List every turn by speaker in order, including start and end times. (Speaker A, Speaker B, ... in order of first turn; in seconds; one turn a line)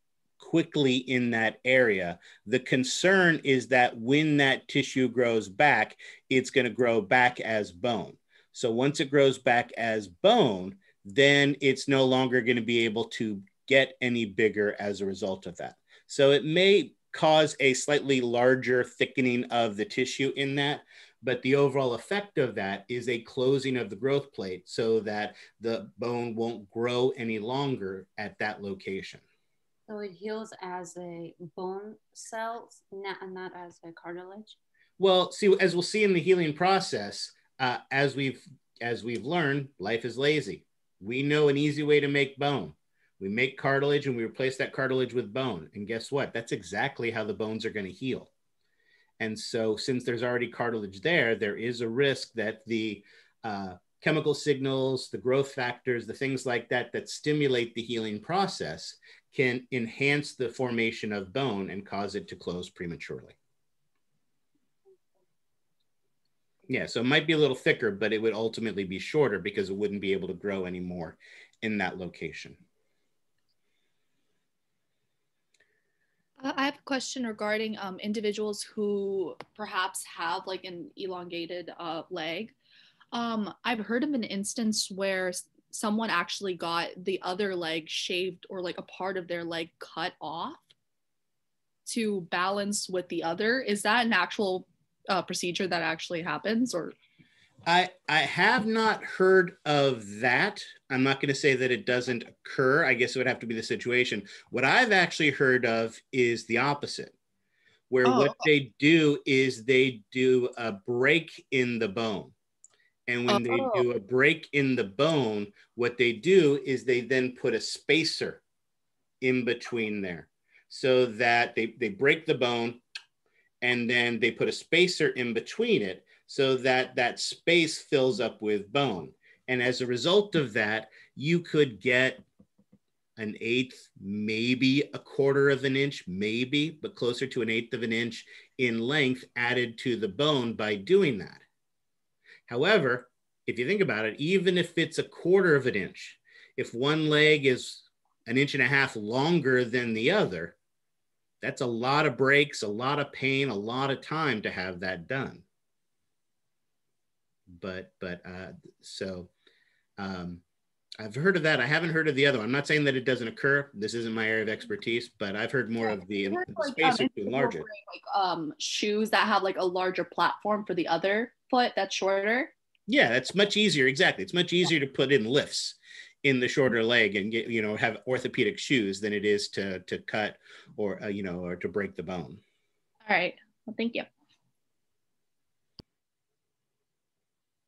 Speaker A: 0.4-29.2
Speaker B: 29.9-34.6
Speaker A: 35.0-48.3
Speaker A: 49.2-63.4
Speaker A: 66.7-72.6
Speaker C: 76.4-82.5
Speaker C: 83.1-90.7
Speaker C: 91.9-97.0
Speaker A: 97.7-107.1
Speaker A: 107.9-112.3
Speaker C: 108.0-108.5
Speaker A: 113.1-118.4
Speaker C: 113.3-113.9
Speaker A: 119.2-122.8
Speaker A: 123.6-132.2
Speaker A: 133.2-141.4
Speaker A: 142.5-150.6
Speaker A: 151.4-155.4
Speaker A: 157.5-159.3
Speaker A: 160.0-160.4
Speaker A: 161.0-167.7
Speaker C: 165.8-172.5
Speaker A: 172.9-182.4
Speaker C: 183.1-184.1